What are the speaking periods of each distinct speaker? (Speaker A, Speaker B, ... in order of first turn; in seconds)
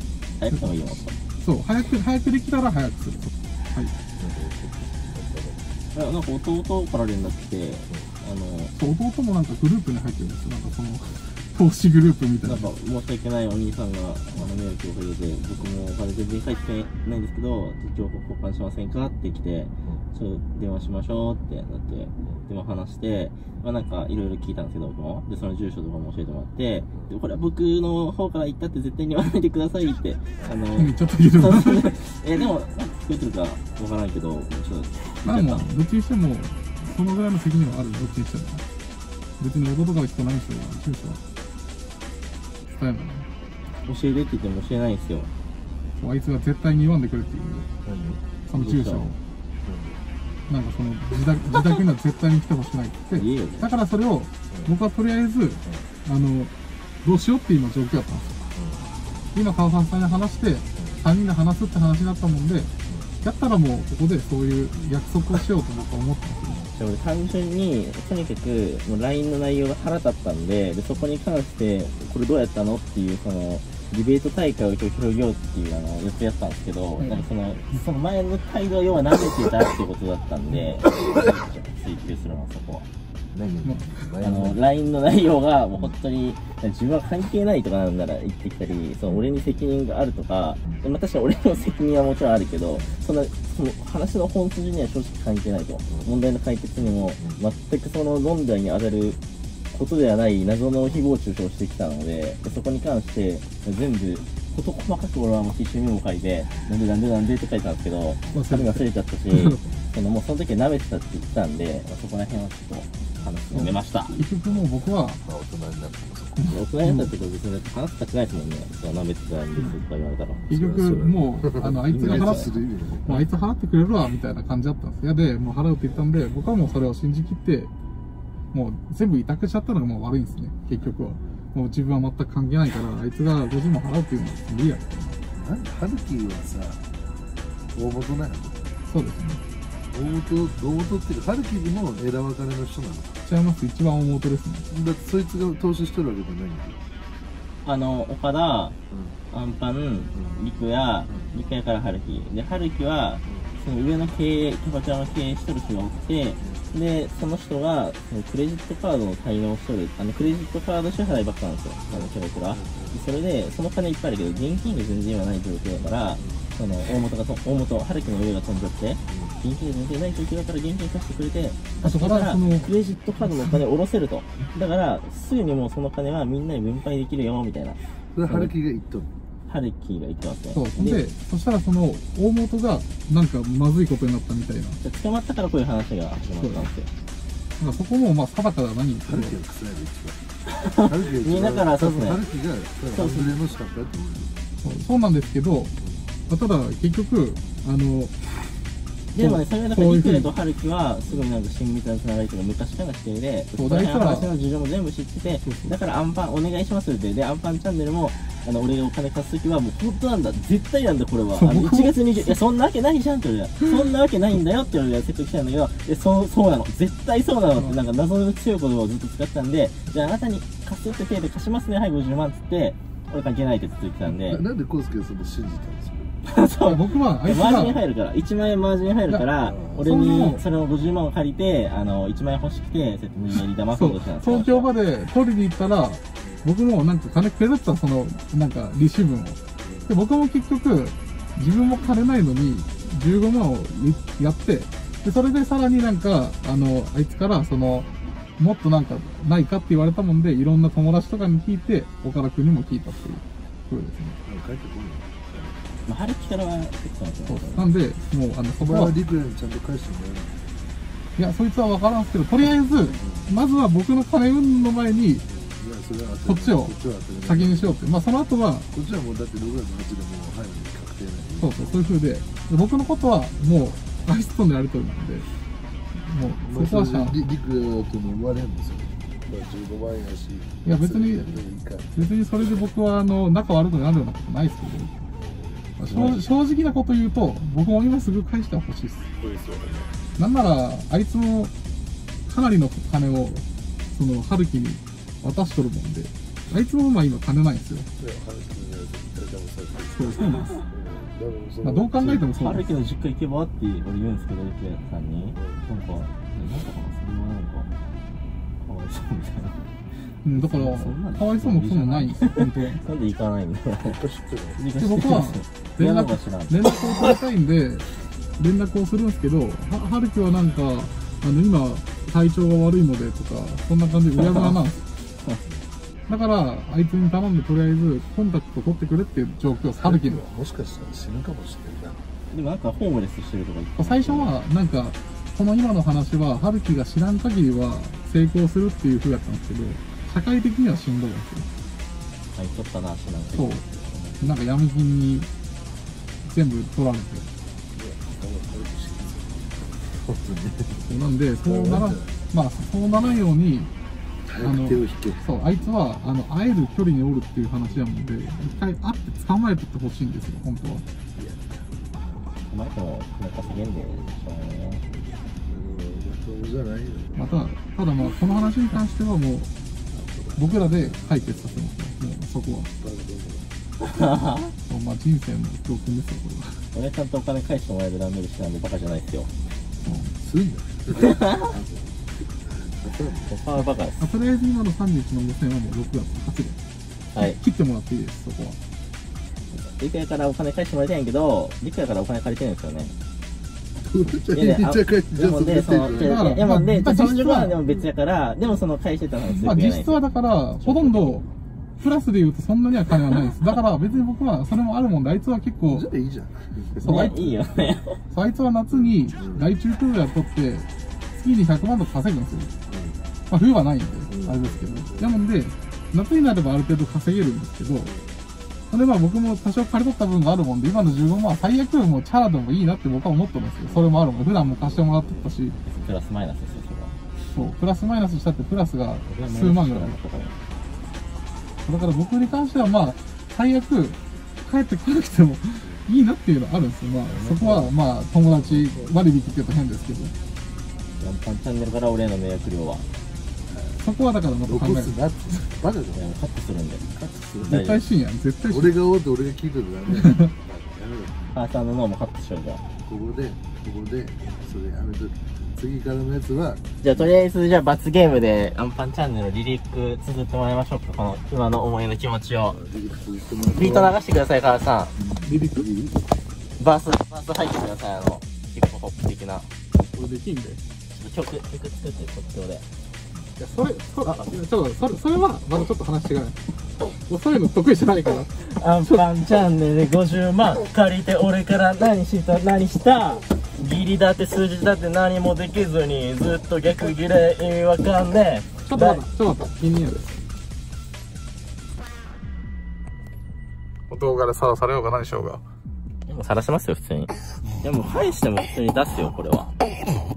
Speaker A: 0.4-1.1, 5.9-8.7, 12.4-35.7, 43.8-45.3, 48.5-49.1, 53.1-53.7, 66.7-82.9, 84.2-99.2, 99.7-114.1, 116.5-120.4, 121.9-122.5, 147.6-148.8, 149.3-178.5, 179.5-181.0, 184.8-186.9, 190.6-192.2, 192.9-193.3, 199.1-224.4, 226.2-234.7, 255.8-257.7, 285.9-286.1, 302.0-307.7, 308.6-309.6, 310.3-314.0, 314.6-317.1, 324.1-324.6, 332.3-334.4, 342.4-344.0, 362.5-364.8, 373.8-374.5, 376.7-379.3, 381.0-381.5, 383.3-384.1, 387.1-387.4, 389.6-392.9, 394.3-400.0, 400.6-401.1, 406.8-408.0, 425.6-427.0, 429.1-430.4, 441.0-442.9, 445.9-447.8, 451.3-452.6, 456.8-462.6, 463.5-464.9, 466.6-469.5, 470.9-472.6, 474.0-474.3, 478.4-489.0, 496.1-499.5
Speaker B: 1.4-3.9, 8.7-12.7, 30.8-31.9, 35.2-38.6, 39.4-41.2, 42.7-43.3, 46.0-47.7, 48.5-49.2, 50.5-56.5, 57.0-58.4, 59.3-62.7, 63.2-66.6, 77.0-77.3, 83.6-83.9, 108.3-109.7, 113.5-115.2, 116.4-117.1, 120.5-122.5, 123.0-127.7, 128.5-135.2, 138.9-139.4, 143.2-144.7, 171.8-172.7, 180.5-184.8, 186.4-186.7, 187.6-189.4, 194.6-195.7, 196.3-198.1, 199.2-200.3, 203.5-204.3, 205.4-205.7, 211.3-212.4, 226.6-227.8, 229.1-230.4, 233.7-254.2, 257.3-258.9, 261.2-265.2, 266.2-268.7, 271.4-275.3, 275.9-277.2, 280.6-281.4, 281.9-284.9, 285.8-289.1, 290.2-291.5, 292.3-297.9, 299.9-300.6, 301.6-302.7, 310.2-312.8, 314.8-317.9, 318.4-325.0, 326.1-330.2, 333.8-341.5, 343.3-343.7, 344.2-345.3, 346.2-347.3, 350.9-353.7, 354.4-360.9, 367.1-369.5, 370.4-372.7, 374.7-376.6, 379.8-380.1, 384.0-386.6, 387.2-388.6, 395.9-397.6, 399.3-401.3, 401.8-405.9, 406.8-407.2, 408.1-412.5, 413.3-417.9, 418.7-425.6, 427.3-430.0, 431.6-440.1, 443.8-444.9, 447.4-448.7, 449.9-450.3, 465.2-465.7, 469.9-470.6, 473.4-476.4, 477.1-479.1, 488.7-490.2, 493.9-495.4
Speaker C: 4.2-5.7, 47.8-48.2, 49.6-50.0, 58.5-58.9, 60.8-61.0, 62.9-63.1, 66.5-66.7, 83.3-84.6, 95.9-96.2, 96.8-97.4, 114.2-116.6, 120.5-123.2, 130.8-131.3, 135.3-136.8, 137.7-138.6, 139.9-143.2, 144.7-146.8, 148.9-149.2, 150.1-150.4, 151.1-151.3, 153.2-153.5, 156.4-156.7, 161.9-163.0, 165.7-166.5, 169.1-169.4, 178.1-179.1, 189.1-190.2, 190.7-194.3, 195.8-196.1, 224.1-226.1, 229.4-229.9, 239.6-239.9, 254.2-255.6, 258.6-260.4, 262.9-263.3, 265.3-267.8, 268.7-271.7, 276.4-282.1, 285.1-286.2, 289.2-289.9, 298.0-302.2, 305.3-305.6, 313.8-314.6, 329.8-332.0, 343.9-344.3, 347.7-350.9, 351.4-352.1, 354.3-355.3, 361.1-362.3, 363.4-364.1, 365.4-367.4, 369.9-371.7, 372.7-373.5, 379.9-383.4, 393.8-396.5, 397.6-397.9, 405.7-407.4, 408.7-409.5, 412.7-413.0, 414.1-415.2, 417.8-418.1, 423.7-425.2, 437.1-437.7, 438.4-438.9, 443.5-443.8, 444.4-446.1, 446.9-447.6, 448.5-451.4, 452.9-457.1, 462.5-464.0, 464.9-466.0